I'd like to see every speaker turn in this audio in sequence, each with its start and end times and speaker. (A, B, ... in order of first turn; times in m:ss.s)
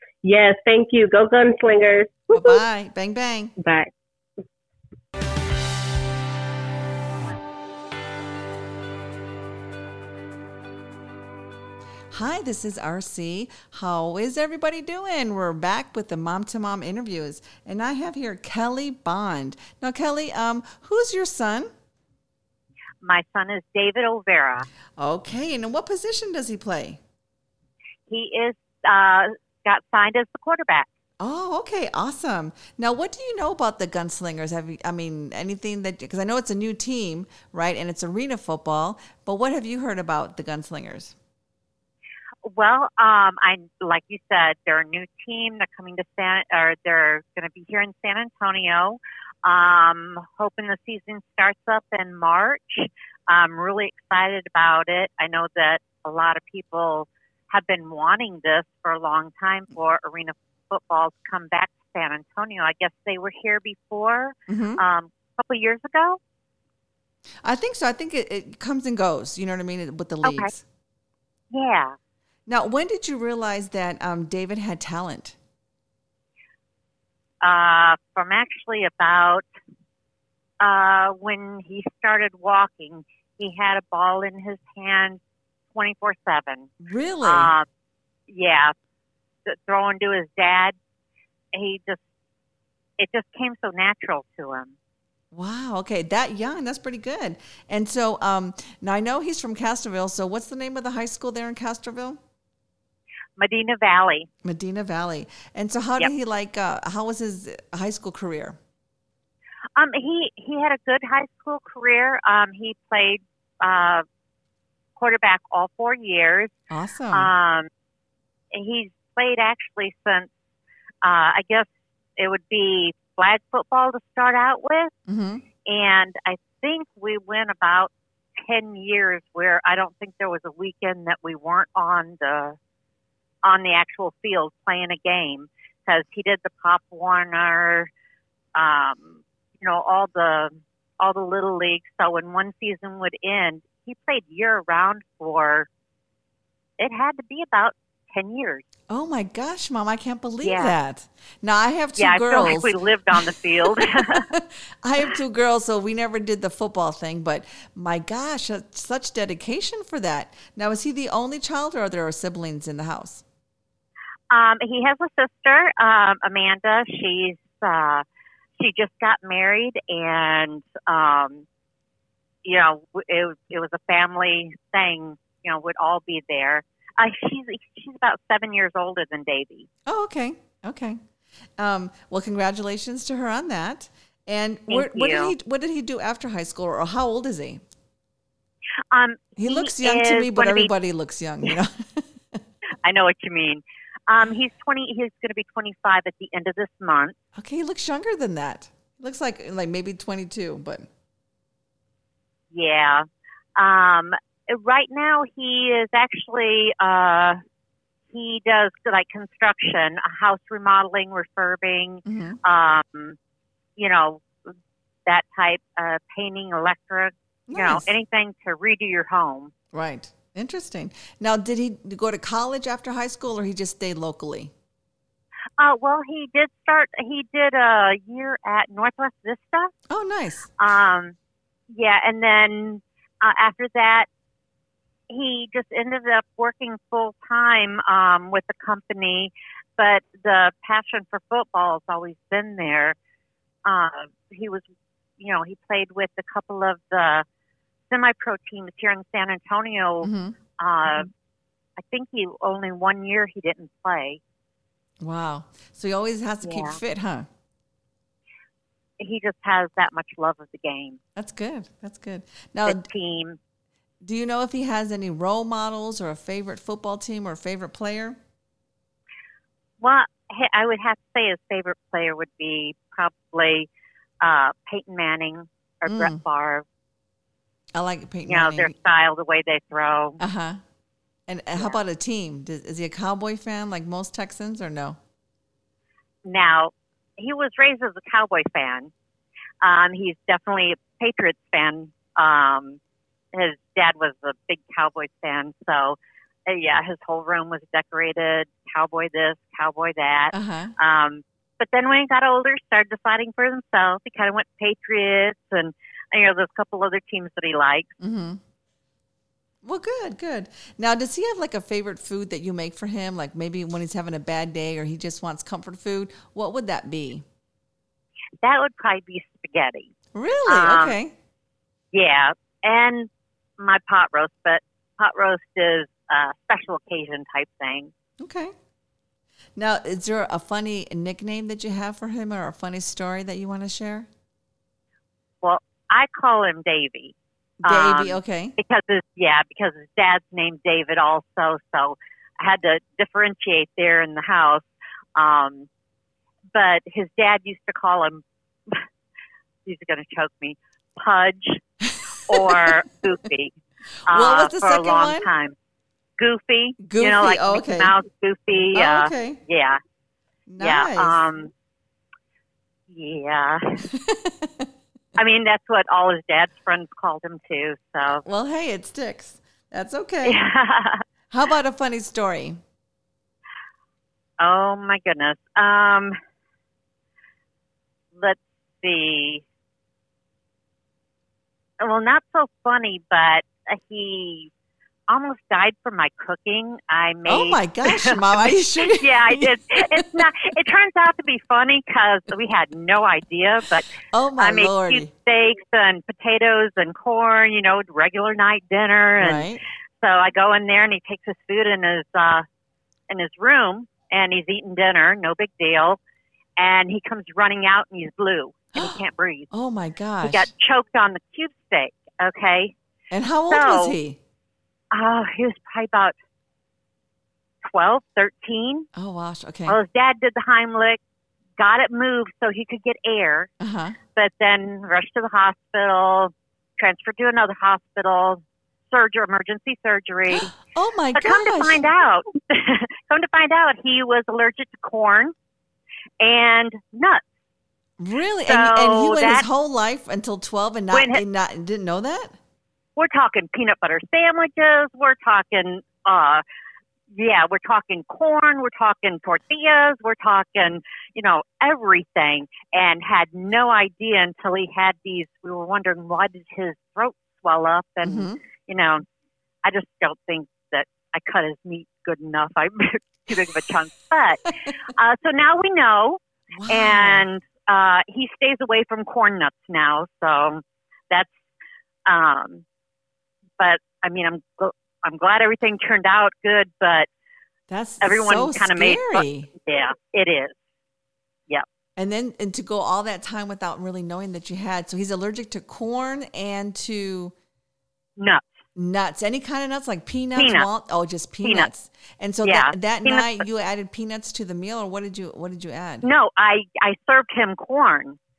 0:00.2-0:02.6 A
0:02.3-0:03.5 B
0:03.6-0:03.9 A
0:12.1-0:21.7 B
0:23.0-0:24.7 C
0:25.0-0:27.0 B
0:28.1-0:30.9 C
0:31.2-0:41.1 B
0:42.4-1:06.2 C
1:04.5-1:04.8 B
1:07.4-1:10.6 B
1:10.2-1:10.5 C
1:11.5-1:12.0 C
1:12.5-1:15.4 B
1:17.4-1:19.4 C
1:20.6-1:25.2 C
1:25.7-1:26.7 C
1:26.8-1:27.5 B
1:27.2-1:27.6 C
1:28.3-1:28.7 C
1:29.4-1:30.7 C
1:31.5-1:32.0 C
1:33.0-1:34.7 C
1:35.3-1:42.2 B
1:43.4-1:44.3 C
1:44.4-1:48.6 B
1:49.8-1:54.0 C
1:55.0-1:56.5 C
1:56.7-1:57.3 B
1:57.1-1:57.7 C
1:58.5-2:00.3 C
2:01.0-2:04.9 C
2:05.1-2:05.4 B
2:05.6-2:12.6 C
2:13.4-2:17.9 C
2:18.5-2:25.7 C
2:26.8-2:28.6 C
2:28.9-2:43.2 B
2:30.4-2:30.7 C
2:32.0-2:34.2 C
2:44.3-2:48.0 C
2:48.6-2:51.4 C
2:52.4-2:59.7 C
2:59.8-3:01.0 B
3:01.6-3:07.6 B
3:04.7-3:05.3 C
3:08.9-3:10.7 C
3:09.4-3:12.4 B
3:12.8-3:17.2 C
3:17.4-3:20.9 B
3:22.5-3:23.0 C
3:23.6-3:27.4 C
3:28.1-3:33.2 C
3:32.0-3:32.4 B
3:33.8-3:34.2 C
3:35.0-3:39.5 C
3:37.5-3:37.9 B
3:39.7-3:44.5 B
3:45.6-3:49.7 C
3:49.9-3:50.5 B
3:50.6-3:51.1 C
3:51.7-3:54.1 C
3:55.1-4:03.0 C
4:03.6-4:04.6 C
4:05.2-4:07.2 C
4:07.9-4:11.1 C
4:10.0-4:10.4 B
4:11.8-4:14.2 C
4:15.0-4:17.3 B
4:16.4-4:16.8 C
4:19.0-4:21.0 C
4:21.2-4:22.9 B
4:22.6-4:23.4 C
4:24.0-4:28.2 B
4:29.8-4:33.7 C
4:34.2-4:36.6 C
4:35.8-4:36.2 B
4:37.7-4:38.7 B
4:38.2-4:40.2 C
4:40.2-4:40.6 B
4:41.3-4:45.0 B
4:46.2-4:48.9 C
4:49.6-4:52.8 C
4:53.3-5:07.9 C
5:00.3-5:00.7 B
5:08.0-5:08.4 B
5:09.6-5:17.2 B
5:18.4-5:19.9 C
5:20.1-5:21.1 B
5:20.5-5:21.0 C
5:21.9-5:27.9 C
5:28.2-5:28.5 B
5:29.6-5:34.1 B
5:35.4-5:37.1 C
5:37.6-5:38.5 B
5:37.6-5:45.7 C
5:46.5-5:48.8 C
5:49.6-5:51.6 C
5:51.8-5:52.7 B
5:52.2-5:53.5 C
5:54.1-5:55.6 C
5:54.1-5:55.3 B
5:56.2-5:59.8 C
5:56.8-5:57.9 B
5:58.7-5:59.4 B
6:00.5-6:01.2 B
6:00.6-6:01.5 C
6:02.9-6:03.8 C
6:03.9-6:04.7 B
6:05.2-6:08.2 C
6:08.2-6:10.4 B
6:10.2-6:11.0 C
6:11.3-6:12.6 B
6:14.4-6:16.1 C
6:18.1-6:19.4 C
6:21.8-6:24.5 C
6:25.1-6:39.5 C
6:27.2-6:30.2 B
6:34.1-6:35.1 B
6:39.2-6:39.6 B
6:40.0-6:42.4 C
6:43.1-6:46.0 C
6:46.6-6:49.5 C
6:48.7-6:49.0 B
6:49.5-6:50.5 B
6:50.2-6:52.7 C
6:53.1-6:54.2 B
6:53.5-6:54.0 C
6:54.9-6:56.2 C
6:57.6-6:58.8 C
6:58.9-6:59.8 B
6:59.7-7:01.0 C
7:01.6-7:03.5 C
7:03.6-7:04.0 B
7:04.1-7:10.5 C
7:10.3-7:11.9 B
7:11.1-7:15.3 C
7:16.2-7:17.2 C
7:18.0-7:22.4 B
7:18.4-7:19.4 C
7:20.9-7:21.2 C
7:23.0-7:26.4 C
7:27.1-7:39.0 C
7:38.0-7:38.4 B
7:39.6-7:51.4 C
7:46.5-7:47.2 B
7:52.0-7:52.6 C
7:53.6-7:57.1 C
7:57.7-7:59.5 B
7:58.0-8:00.6 C
8:02.0-8:07.3 B
8:08.2-8:08.5 C
8:08.8-8:16.0 B
8:10.4-8:10.7 C
8:11.4-8:11.7 C
8:12.4-8:13.4 C
8:16.0-8:18.2 C